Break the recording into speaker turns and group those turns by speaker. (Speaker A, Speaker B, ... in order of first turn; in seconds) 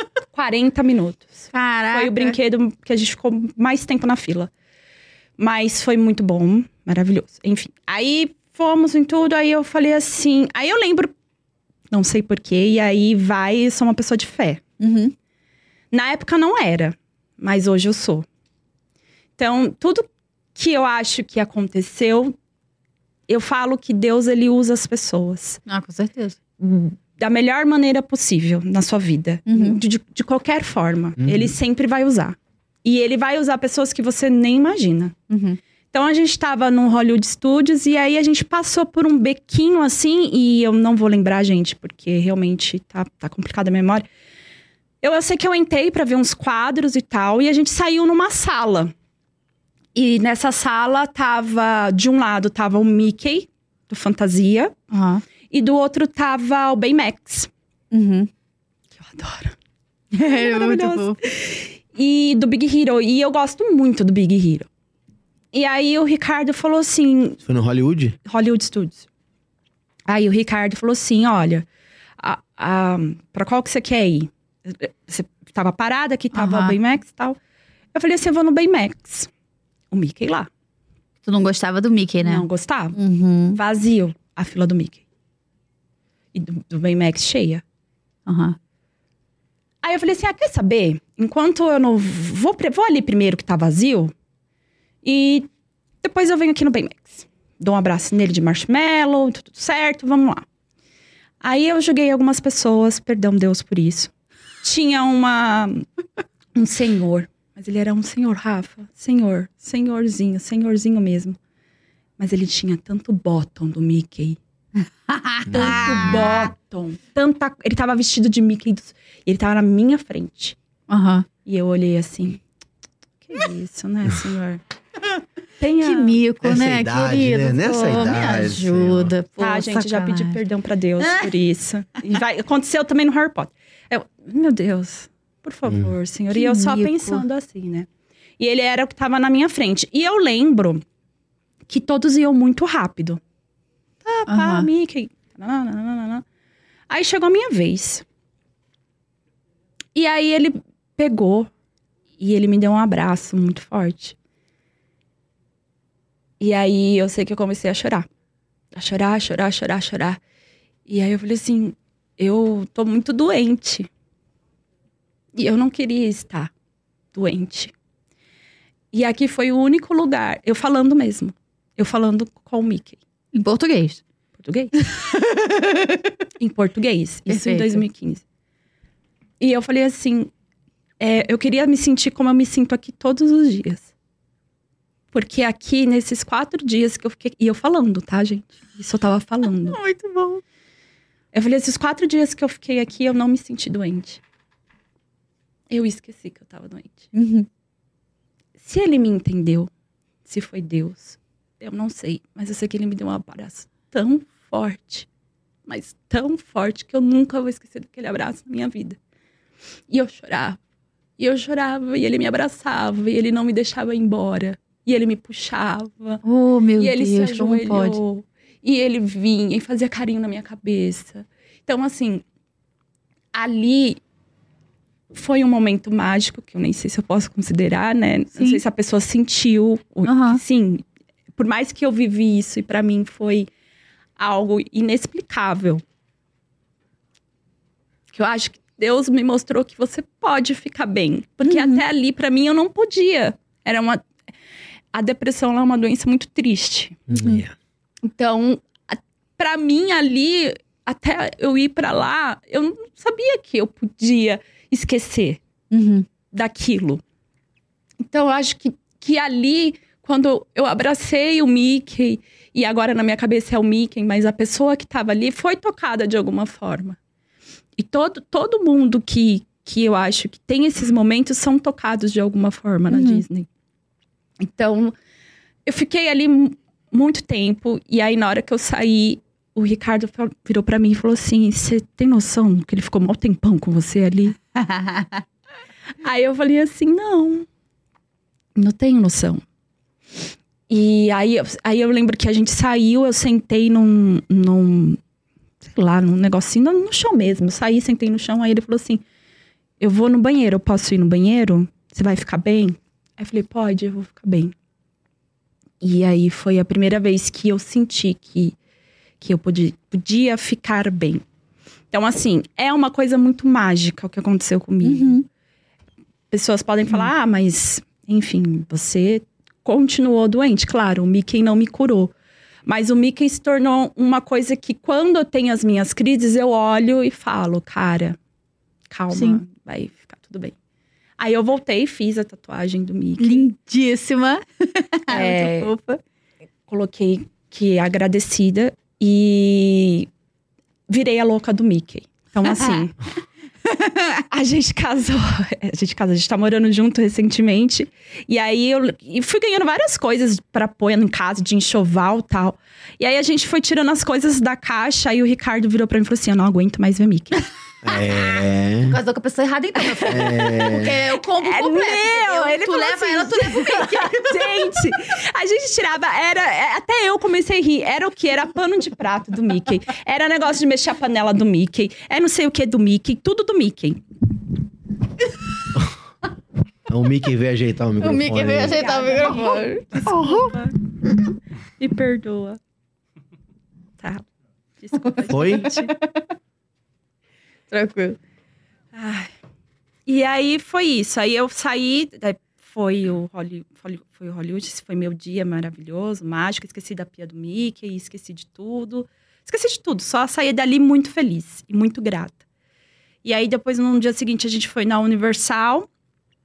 Speaker A: 0.3-4.5, 5.4-11.1, 11.9-14.6, 15.9-18.2, 19.4-22.4, 23.3-25.6, 26.6-35.1, 35.9-44.0, 45.0-48.9, 49.9-54.7, 55.5-57.5, 59.0-59.5, 60.1-64.7, 65.5-67.4, 68.2-69.0, 70.1-71.7, 72.2-77.4, 77.9-79.3, 79.9-80.5, 82.2-83.0, 83.5-85.0, 86.3-87.6, 89.8-94.1, 95.0-95.5, 96.0-100.4, 101.4-104.1, 104.6-105.8, 106.5-111.4, 112.2-114.4, 115.5-120.5, 121.5-122.4, 123.2-124.6, 125.6-126.2, 129.4-137.9, 138.4-140.8, 141.7-143.2, 144.0-146.2, 146.9-148.0, 149.9-151.5, 152.2-154.2, 156.4-158.1, 158.7-160.2, 160.9-163.9, 165.3-166.5, 167.1-167.7, 168.9-173.0, 174.4-174.7, 176.4-178.2, 179.4-180.3, 181.0-183.9, 185.1-189.8, 191.3-194.2, 195.7-197.1, 198.6-199.7, 200.2-205.1, 205.7-209.0, 209.9-210.6, 211.2-216.2, 216.8-222.2, 223.3-224.0, 225.1-230.8, 231.3-233.5, 234.2-235.8, 238.1-244.0, 244.9-247.1, 248.0-255.4, 256.3-257.0, 258.0-267.0, 267.8-273.5, 274.4-274.9, 275.6-284.4, 286.0-287.4, 288.6-289.4, 290.7-295.0, 295.6-299.0, 299.8-304.5, 305.8-308.6, 309.2-311.2, 311.9-315.2, 316.3-322.1, 322.6-328.2, 328.9-330.5, 331.2-333.5, 335.1-335.7, 336.7-340.1, 340.9-342.9, 344.3-357.5, 359.9-360.3, 361.4-374.0, 378.7-380.8, 381.8-382.6, 384.0-384.2, 384.8-385.9, 388.9-389.3, 390.1-402.4, 403.2-405.9
Speaker B: 1.5-2.4, 14.8-15.1, 25.7-26.4, 29.5-29.8, 35.3-35.6, 54.9-55.2, 57.9-58.3, 60.1-61.2, 76.3-76.8, 81.2-83.6, 88.3-88.6, 115.1-116.4, 120.9-121.2, 125.8-130.4, 131.0-131.2, 136.3-137.2, 144.3-144.7, 173.3-174.0, 174.8-176.1, 177.3-177.8, 189.7-190.4, 197.1-197.5, 216.2-218.0, 228.3-228.6, 230.0-230.4, 241.4-241.8, 255.7-256.1, 272.9-273.2, 284.5-285.2, 314.8-315.2, 329.1-329.4, 333.2-336.0, 342.5-342.8, 343.6-344.2, 358.9-364.4, 378.0-379.8, 385.0-386.2, 387.7-388.2
Speaker C: 31.2-31.5, 67.4-68.2, 115.5-116.3, 126.4-129.1, 135.7-135.9, 247.1-247.5, 357.8-359.0, 360.1-361.0, 376.9-378.9, 380.0-380.5, 385.3-385.7